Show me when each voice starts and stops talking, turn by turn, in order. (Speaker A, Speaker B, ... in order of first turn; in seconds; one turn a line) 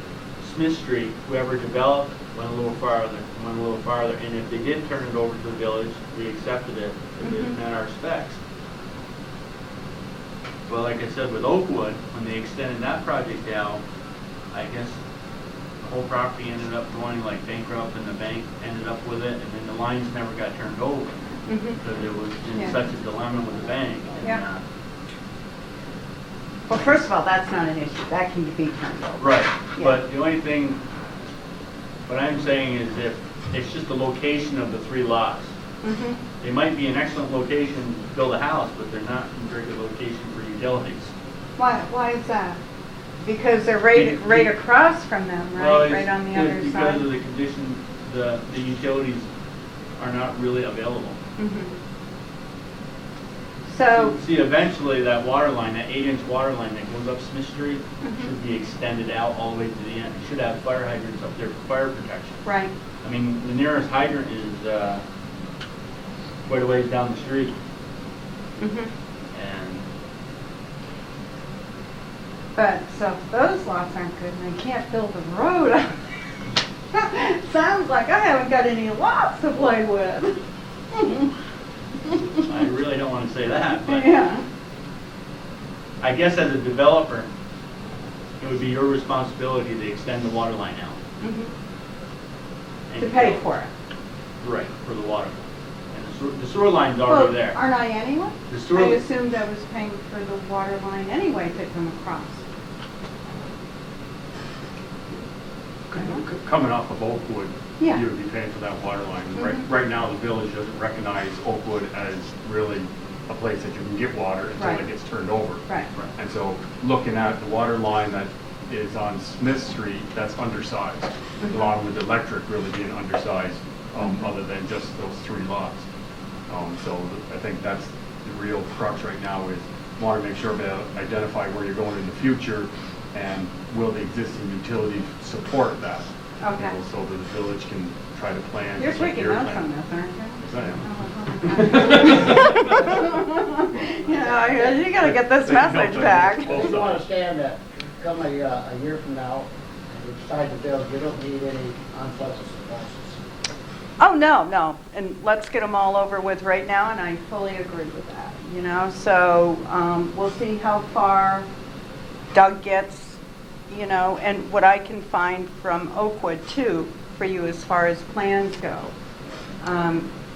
Speaker A: 0.4-8.4
Speaker B: 7.2-7.5
Speaker A: 10.7-13.8
Speaker A: 14.5-15.0
Speaker A: 15.8-21.1
Speaker B: 21.5-21.8
Speaker A: 21.8-24.6
Speaker B: 26.7-30.0
Speaker A: 29.2-30.8
Speaker A: 32.1-35.5
Speaker B: 35.8-36.2
Speaker A: 36.4-41.1
Speaker B: 41.6-42.6
Speaker B: 43.2-47.0
Speaker A: 43.9-44.5
Speaker A: 45.5-49.3
Speaker A: 50.0-51.2
Speaker B: 51.4-51.7
Speaker B: 53.7-54.1
Speaker A: 53.9-62.4
Speaker B: 58.0-58.3
Speaker B: 62.5-62.7
Speaker A: 63.0-65.0
Speaker A: 66.5-67.5
Speaker B: 68.6-68.9
Speaker A: 69.3-69.8
Speaker B: 72.5-76.0
Speaker B: 76.9-80.4
Speaker B: 80.9-81.3
Speaker A: 82.4-84.1
Speaker B: 83.8-84.4
Speaker A: 86.0-87.3
Speaker A: 88.4-91.0
Speaker B: 91.2-91.5
Speaker A: 92.9-93.5
Speaker B: 93.0-93.7
Speaker A: 94.4-95.4
Speaker A: 95.9-97.6
Speaker B: 97.0-102.4
Speaker A: 98.5-99.0
Speaker C: 105.9-125.8
Speaker B: 105.9-106.2
Speaker B: 109.4-109.6
Speaker B: 114.6-114.8
Speaker B: 121.4-121.7
Speaker B: 124.0-124.3
Speaker C: 126.5-139.7
Speaker B: 136.4-136.8
Speaker B: 138.8-146.6
Speaker C: 140.4-142.9
Speaker C: 144.9-147.0
Speaker D: 146.4-153.2
Speaker B: 154.0-161.4
Speaker B: 162.3-163.2
Speaker B: 163.7-168.9
Speaker B: 169.6-170.1